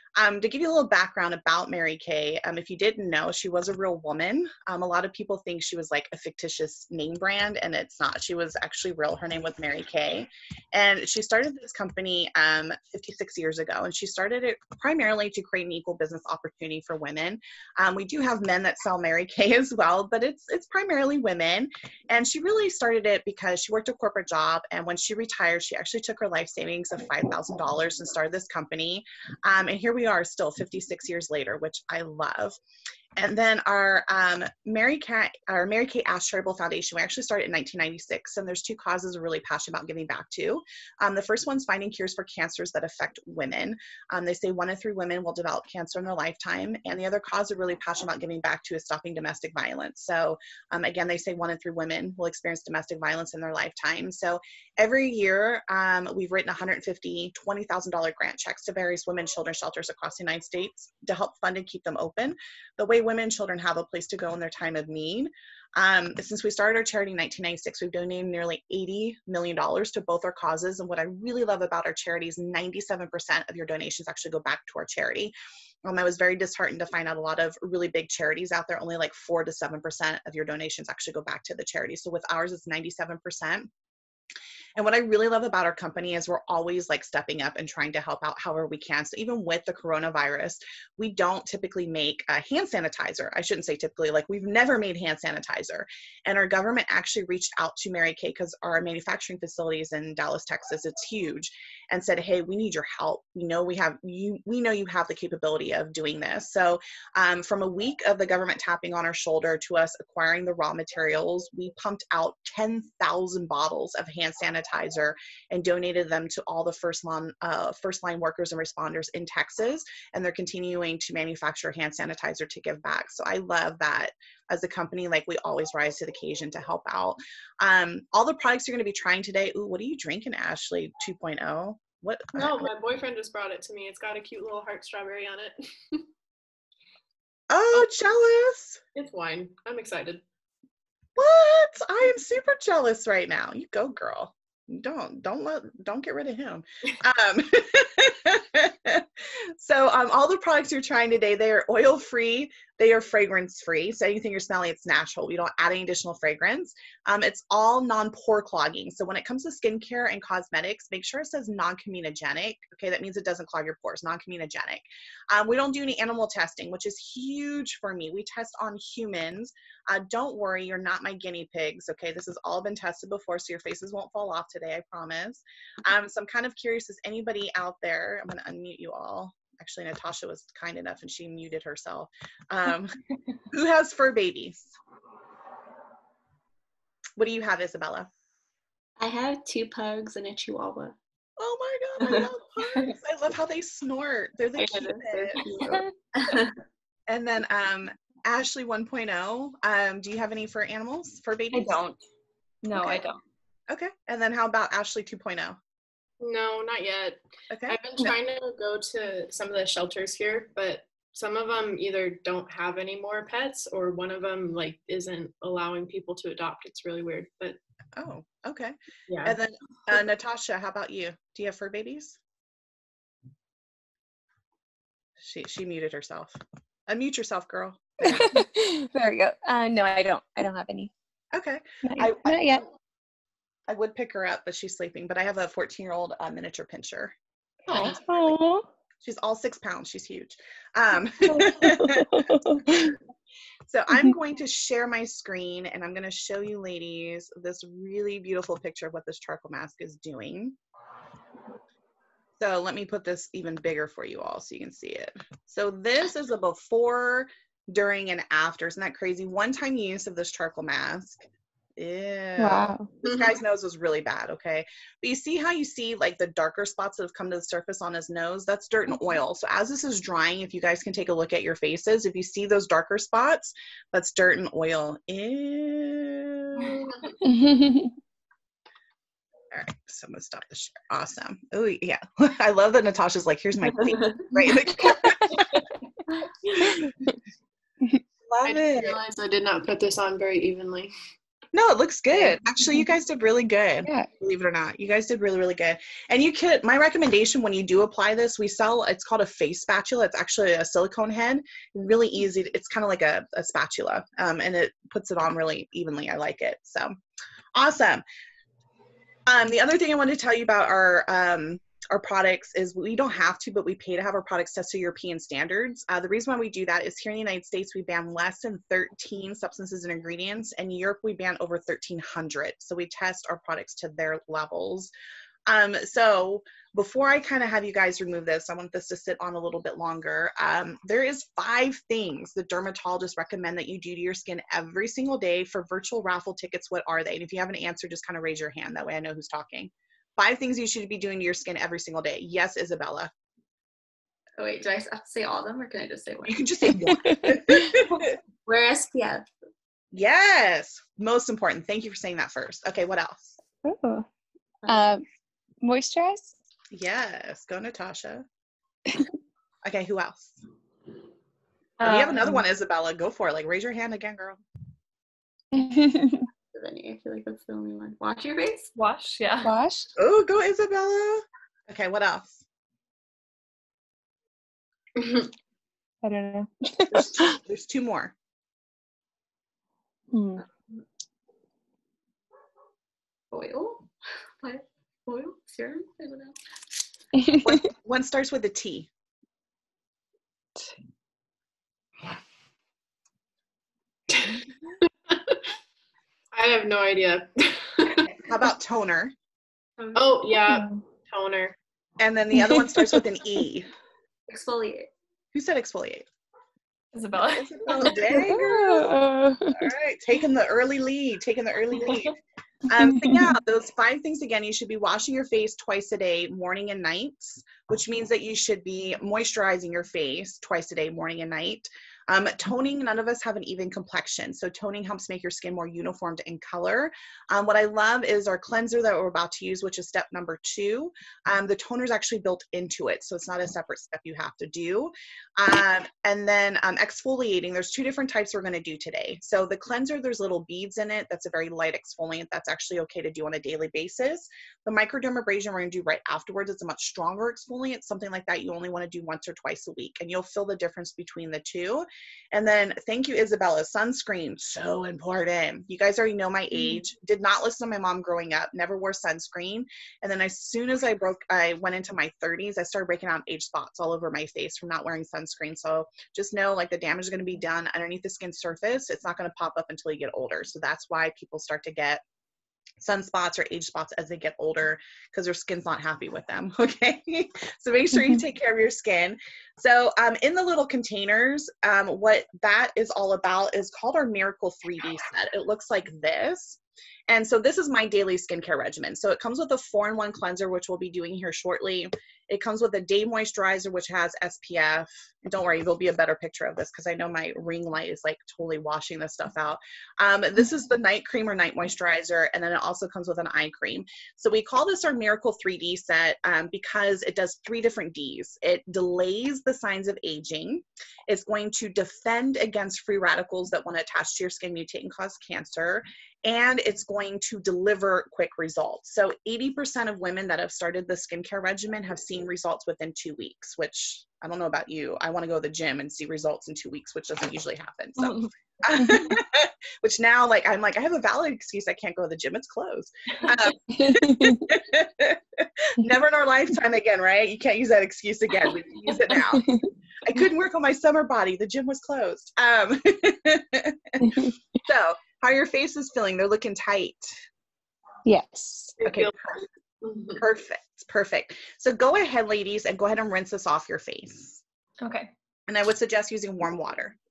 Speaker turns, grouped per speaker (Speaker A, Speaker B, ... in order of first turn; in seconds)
Speaker A: 0.2-32.6, 33.2-83.7, 84.8-132.7, 137.5-138.8, 141.2-183.0, 183.5-184.7, 187.2-188.1, 191.4-195.8, 197.1-201.8, 202.7-203.0, 203.7-205.6, 207.5-208.2, 217.9-222.2, 225.2-228.4, 231.3-232.6, 233.7-237.2, 237.7-238.4, 239.0-242.9, 243.7-250.6, 252.4-261.3, 261.8-277.0, 279.5-285.6, 288.3-289.0, 291.5-306.9, 307.6-308.0, 309.3-324.9, 325.5-343.1, 346.2-348.1, 349.9-353.4, 356.7-358.3, 359.6-360.4, 361.8-364.4, 370.0-372.4, 376.9-378.1, 387.4-388.9, 398.1-399.1, 402.0-403.7, 405.3-406.1, 407.3-408.9, 409.5-412.1, 412.7-472.0, 472.8-539.5, 540.0-547.2, 548.8-549.2, 550.2-554.4, 555.5-557.0
Speaker B: 132.3-136.1, 138.9-140.2, 206.2-217.6, 219.1-219.4, 288.4-290.9, 394.1-394.5, 395.1-395.4, 396.3-398.1, 399.9-401.6, 548.8-550.2
Speaker C: 189.0-191.0, 192.0-192.3, 194.6-196.6, 344.4-346.5, 348.5-349.2, 354.6-354.9, 366.5-368.7, 383.3-383.9, 384.4-386.4, 399.8-400.3, 404.3-404.9
Speaker D: 202.6-203.2, 361.8-362.4, 368.8-369.5, 406.9-407.9, 528.0-528.3, 554.8-555.1
Speaker E: 228.0-230.9, 231.8-232.7, 237.7-238.7, 241.3-242.9, 262.4-262.9, 277.2-277.9, 285.1-285.4, 286.6-286.9, 346.9-347.7, 353.6-354.1, 354.7-355.1, 355.6-356.4, 365.5-366.3, 369.4-369.9, 376.0-377.4, 380.1-380.4, 387.2-387.6, 400.5-400.8, 402.4-403.0, 407.8-409.7, 412.8-413.3, 477.9-478.2, 528.9-529.1, 533.7-534.5, 539.3-539.7, 544.0-544.3, 548.1-548.8